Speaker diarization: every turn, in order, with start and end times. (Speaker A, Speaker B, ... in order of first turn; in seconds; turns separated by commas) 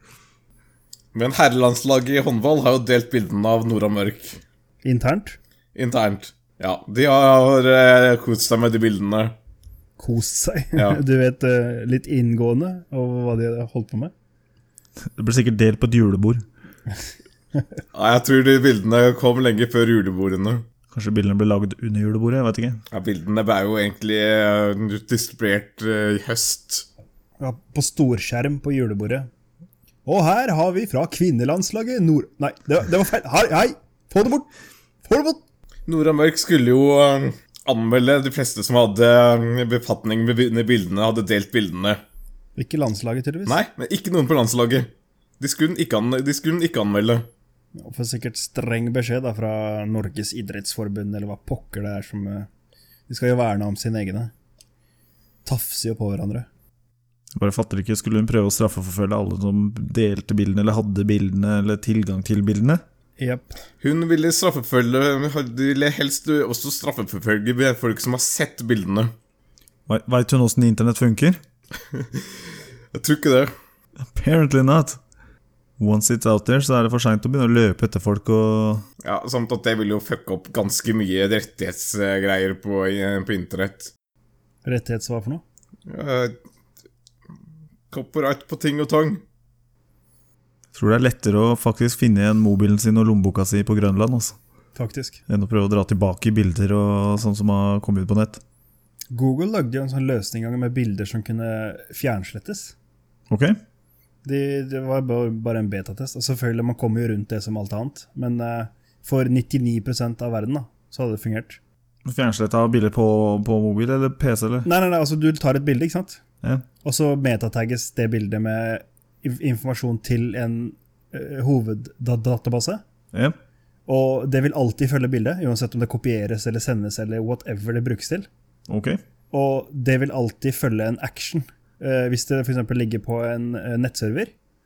Speaker A: 1.1-4.4, Speaker B: 4.8-5.4, Speaker A: 5.7-9.3, Speaker B: 10.0-14.1, Speaker A: 10.8-11.0, Speaker C: 15.0-16.4, Speaker A: 17.9-20.6, Speaker C: 20.9-22.8, Speaker A: 22.9-26.9, Speaker B: 27.4-29.3, Speaker B: 30.0-34.5, Speaker B: 35.0-35.4, Speaker A: 35.9-42.0, Speaker B: 42.6-43.6, Speaker A: 43.5-47.3, Speaker B: 47.8-52.5, Speaker B: 53.1-54.3, Speaker B: 55.4-56.5, Speaker C: 57.3-62.8, Speaker B: 63.2-63.6, Speaker A: 63.8-69.1, Speaker C: 69.9-71.4, Speaker A: 71.9-72.2, Speaker A: 72.9-73.5, Speaker C: 74.1-75.0, Speaker C: 75.8-78.8, Speaker A: 79.0-83.9, Speaker B: 84.6-85.4, Speaker A: 85.9-86.3, Speaker A: 87.9-89.2, Speaker C: 90.7-94.4, Speaker B: 94.7-95.2, Speaker C: 95.3-98.4, Speaker B: 99.1-102.7, Speaker C: 103.3-103.6, Speaker B: 104.2-111.6, Speaker C: 112.0-114.7, Speaker B: 114.6-116.2, Speaker B: 116.8-122.8, Speaker B: 123.9-128.3, Speaker C: 128.7-129.0, Speaker B: 129.3-134.3